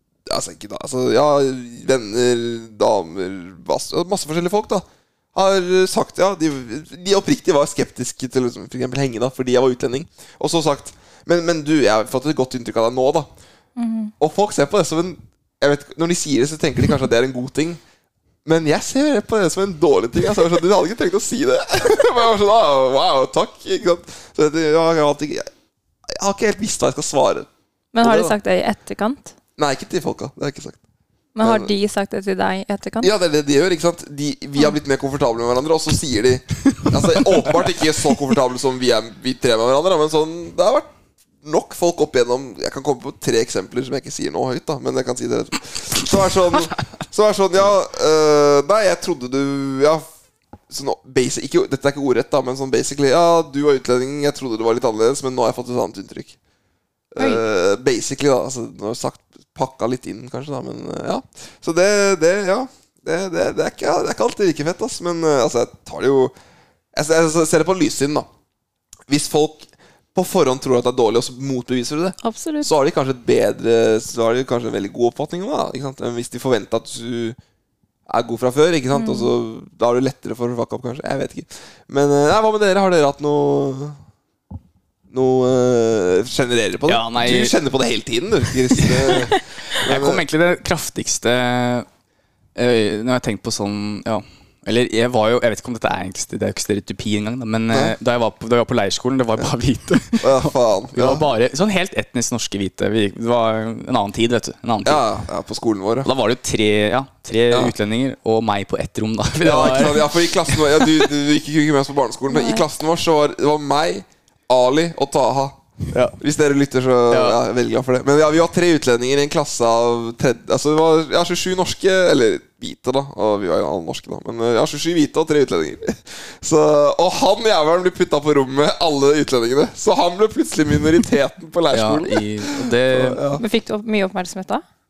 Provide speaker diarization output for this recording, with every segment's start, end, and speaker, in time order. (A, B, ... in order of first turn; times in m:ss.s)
0:00.3-0:13.3 A
0:13.8-0:14.1 B
0:14.2-0:17.8 A
0:18.4-0:25.5 A
0:26.1-0:27.5 A
0:27.9-0:29.3 B
0:28.0-0:28.3 A
0:29.6-0:30.8 A
0:31.3-0:33.1 B
0:31.4-0:31.7 A
0:33.0-0:40.9 A
0:41.4-0:50.0 A
0:50.7-0:56.4 A
0:57.1-1:06.3 A
1:06.9-1:08.3 A
1:09.1-1:17.4 A
1:12.2-1:12.7 B
1:18.1-1:24.0 A
1:18.9-1:19.3 B
1:25.1-1:30.2 A
1:26.9-1:27.5 C
1:28.7-1:29.2 C
1:29.8-1:31.8 C
1:32.6-1:45.0 C
1:40.2-1:41.2 A
1:44.8-1:46.1 A
1:46.0-1:51.0 C
1:49.4-1:55.6 A
1:52.3-1:52.6 B
1:56.2-2:13.4 A
1:57.1-1:57.4 C
2:11.7-2:13.2 C
2:13.4-2:14.6 B